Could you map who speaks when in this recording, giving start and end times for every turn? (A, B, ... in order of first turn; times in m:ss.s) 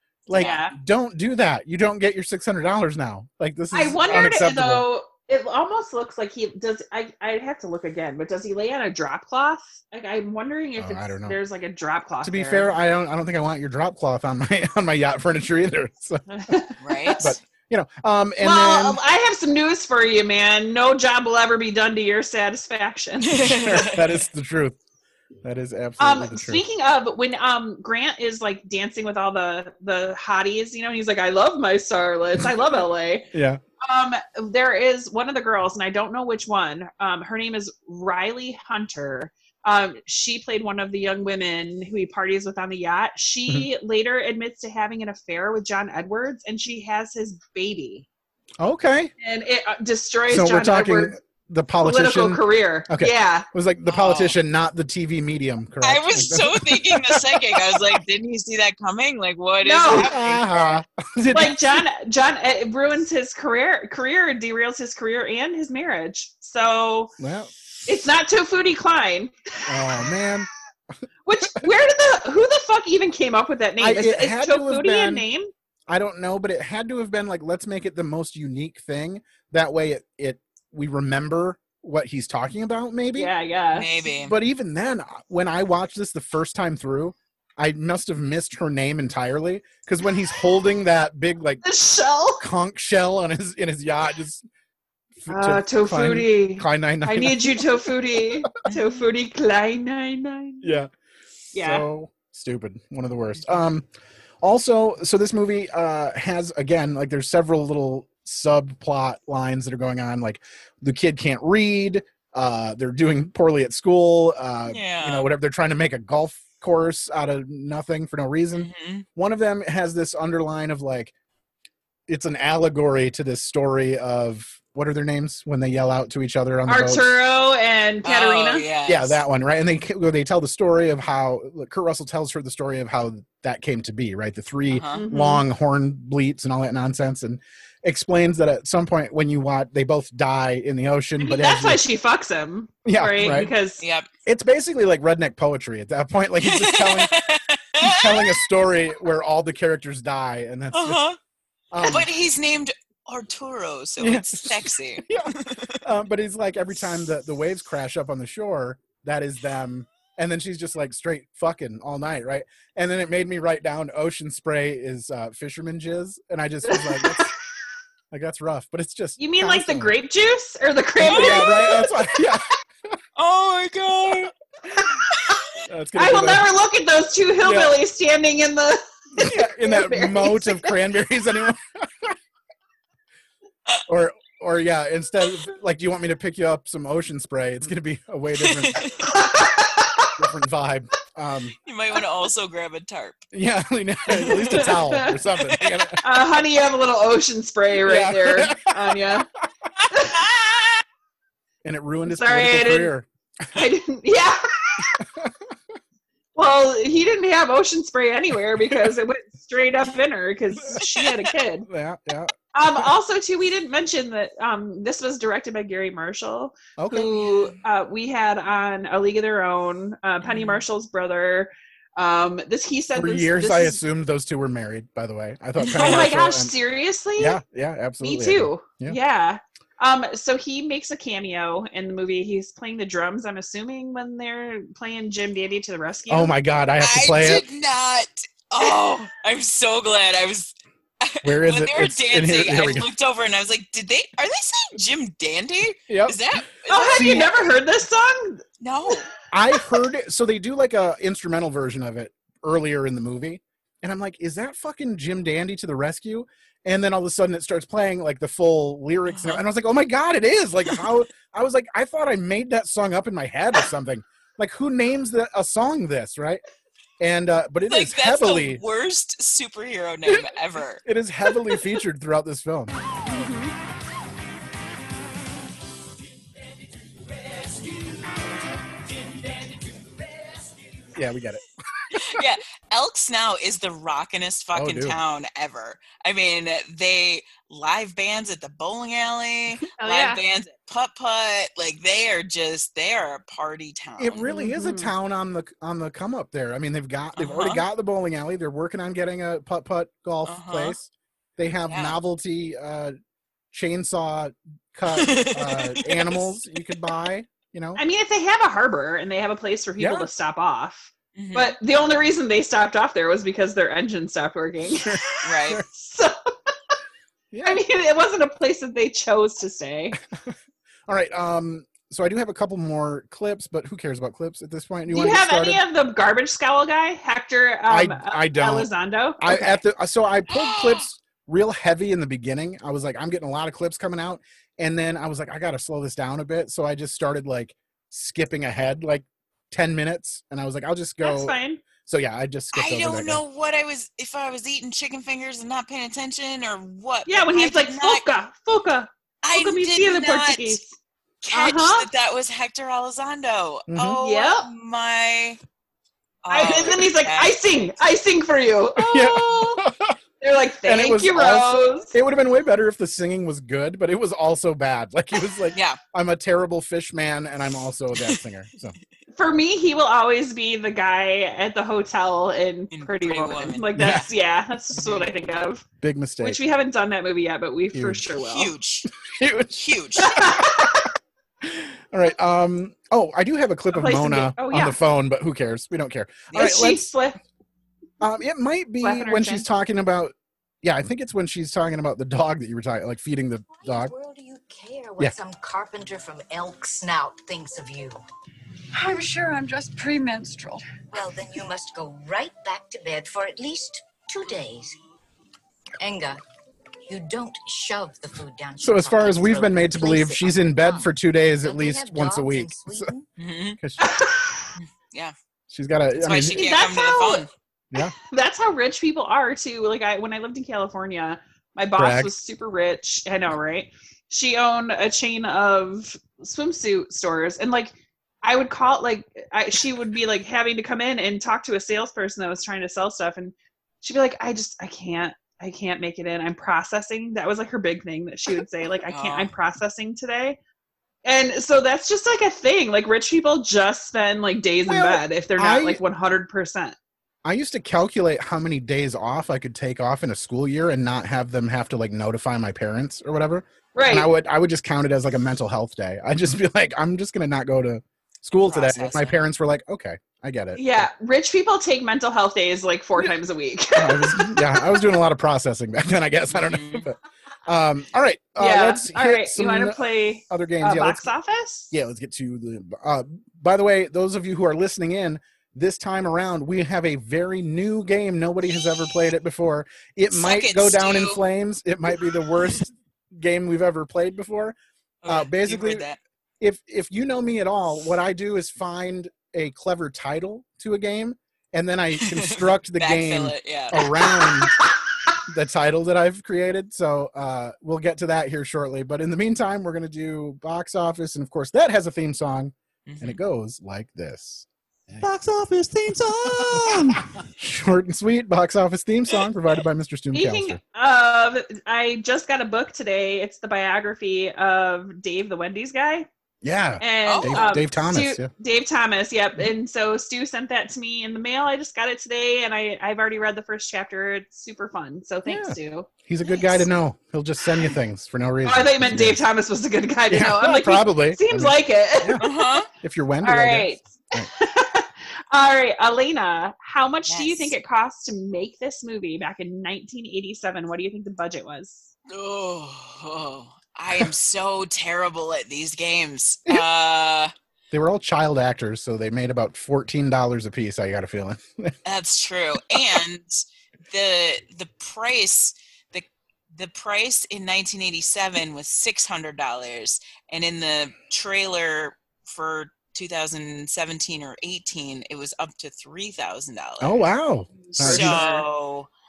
0:00.3-0:04.8 A
0:00.3-0:00.6 B
0:00.3-0:00.7 C
0:03.7-0:12.7 C
0:10.8-0:11.4 A
0:12.2-0:16.2 A
0:16.3-0:17.3 C
0:16.8-0:17.4 B
0:17.2-0:19.0 A
0:18.4-0:23.4 C
0:23.3-0:24.2 B
0:23.3-0:24.8 A
0:25.4-0:26.6 A
0:26.0-0:33.2 C
0:33.3-0:33.6 A
0:33.8-0:48.0 C
0:48.6-0:49.1 A
0:49.2-0:51.1 C
0:50.3-0:58.0 A
0:51.8-0:53.4 C
0:53.9-0:54.4 B
0:55.8-1:00.7 B
0:59.6-1:00.2 C
0:59.9-1:01.8 A
1:01.3-1:07.1 C
1:07.2-1:07.5 A
1:07.8-1:10.1 C
1:09.7-1:10.5 A
1:11.2-1:15.5 C
1:13.8-1:15.2 A
1:15.9-1:23.3 A
1:23.2-1:23.9 C
1:23.7-1:24.4 B
1:24.2-1:31.6 A
1:31.6-1:32.4 C
1:32.4-1:34.4 A
1:35.2-1:37.9 A
1:35.3-1:40.7 C
1:38.7-1:39.0 B
1:40.6-1:40.9 A
1:41.5-1:41.8 C
1:41.5-1:43.8 A
1:44.4-2:01.1 A
1:54.7-1:55.3 B
1:58.6-1:59.0 B
2:02.1-2:07.2 A
2:06.7-2:08.6 C
2:08.0-2:09.2 B
2:08.9-2:21.8 A
2:14.7-2:15.0 B
2:14.9-2:15.4 C
2:21.2-2:23.8 C
2:22.8-2:23.5 A
2:23.2-2:24.1 B
2:24.2-2:27.2 A
2:26.4-2:28.4 B
2:27.8-2:31.0 A
2:30.7-2:31.2 B
2:31.7-2:32.1 A
2:31.8-2:35.8 B
2:34.0-2:47.3 A
2:46.7-2:47.2 C
2:48.1-2:49.9 A
2:49.2-2:52.1 C
2:51.0-2:51.9 B
2:51.0-2:53.0 A
2:53.2-2:54.3 B
2:55.1-2:55.4 B
2:55.7-2:56.4 A
2:56.0-3:00.7 C
2:57.4-2:57.8 A
2:59.2-3:02.1 A
3:03.9-3:08.9 A
3:08.4-3:09.0 B
3:09.1-3:10.1 C
3:10.2-3:11.5 A
3:11.6-3:13.2 B
3:13.3-3:16.0 A
3:14.2-3:15.1 C
3:15.5-3:15.9 B
3:16.0-3:19.2 C
3:17.8-3:19.2 A
3:19.8-3:20.8 B
3:19.9-3:20.2 C
3:21.6-3:23.1 A
3:22.1-3:22.9 C
3:23.5-3:25.0 C
3:25.0-3:25.3 A
3:26.4-3:31.7 C
3:31.7-3:32.9 A
3:32.5-3:43.8 C
3:36.8-3:37.2 A
3:40.3-3:40.6 B
3:42.9-3:46.5 A
3:45.6-3:46.0 B
3:45.7-3:47.4 C
3:47.2-3:49.0 A
3:48.0-3:56.3 C
3:56.1-3:57.4 A
3:56.8-4:07.2 B
4:01.2-4:02.9 A
4:05.9-4:06.2 A
4:06.7-4:08.4 C
4:06.9-4:07.3 A
4:08.6-4:09.0 B
4:09.3-4:26.4 A
4:19.1-4:19.4 B
4:27.0-4:28.6 A
4:27.7-4:30.8 B
4:30.0-4:32.7 A
4:33.1-4:33.5 C
4:40.9-4:42.2 A
4:41.9-4:54.2 B
4:44.5-4:45.0 A
4:49.8-4:50.2 C
4:54.0-5:03.0 A
4:54.2-4:54.9 C
4:57.2-4:57.6 B
5:00.2-5:00.7 B
5:01.7-5:02.0 B
5:03.5-5:07.8 A
5:04.9-5:06.2 B
5:07.8-5:15.0 C
5:09.8-5:10.1 A
5:11.2-5:11.5 B
5:14.8-5:15.6 A
5:15.2-5:15.6 B
5:15.7-5:16.1 C
5:17.3-5:17.6 A
5:17.4-5:20.0 C
5:20.9-5:25.6 A
5:24.9-5:29.5 C
5:27.7-5:43.2 A
5:30.3-5:30.8 B
5:41.0-5:41.6 C
5:42.5-5:48.0 B
5:47.1-5:50.7 C
5:49.2-5:50.6 B
5:51.2-5:55.4 B
5:51.3-5:51.9 C
5:53.7-5:54.0 A
5:54.0-5:54.4 C
5:56.2-5:57.4 B
5:56.3-5:59.6 C
5:58.8-6:00.0 A
6:00.2-6:01.9 C
6:00.6-6:08.8 A
6:05.5-6:05.8 B
6:09.1-6:15.6 C
6:12.7-6:14.1 B
6:13.8-6:14.1 A
6:14.8-6:15.1 B
6:15.8-6:16.4 A
6:16.2-6:18.5 C
6:17.7-6:18.0 A
6:18.2-6:18.9 B
6:19.0-6:19.5 A
6:19.5-6:20.3 B
6:20.0-6:20.9 C
6:21.4-6:26.9 A
6:23.7-6:24.8 C
6:26.3-6:26.7 B
6:26.3-6:27.2 C
6:28.0-6:33.9 A
6:28.8-6:29.4 C
6:33.5-6:38.0 D
6:38.7-6:40.7 E
6:40.9-6:44.8 D
6:45.8-6:46.2 D
6:46.8-6:50.9 D
6:48.6-6:52.9 A
6:51.4-6:53.0 D
6:53.2-6:53.6 B
6:53.8-6:54.5 C
6:54.6-6:55.1 B
6:55.5-6:56.4 A
6:56.0-6:57.3 B
6:56.4-6:57.2 C
6:57.9-7:20.4 C
7:01.8-7:02.1 A
7:18.9-7:19.3 B
7:21.0-7:26.8 C
7:24.6-7:25.8 A
7:27.2-7:40.9 A
7:33.7-7:34.1 C
7:38.4-7:39.2 B
7:40.6-7:44.9 C
7:43.8-7:51.1 A
7:46.4-7:46.9 B
7:48.4-7:51.7 C
7:51.7-8:04.6 A
8:00.1-8:01.2 B
8:05.0-8:06.0 B
8:05.1-8:05.9 A
8:06.4-8:14.5 A
8:12.0-8:13.8 B
8:13.8-8:14.3 C
8:15.3-8:24.4 A
8:22.9-8:23.2 B
8:25.9-8:30.6 A
8:30.1-8:36.1 C
8:36.4-8:38.3 A
8:36.8-8:45.9 C
8:37.0-8:37.6 B
8:45.2-8:49.2 A
8:48.4-8:52.5 C
8:50.1-8:54.3 A
8:52.2-8:52.7 B
8:53.2-9:01.9 C
8:57.1-8:57.5 B
9:02.1-9:07.3 B
9:07.7-9:11.7 A
9:11.8-9:27.0 B
9:26.8-9:28.2 A
9:27.7-9:28.4 C
9:27.8-9:28.9 B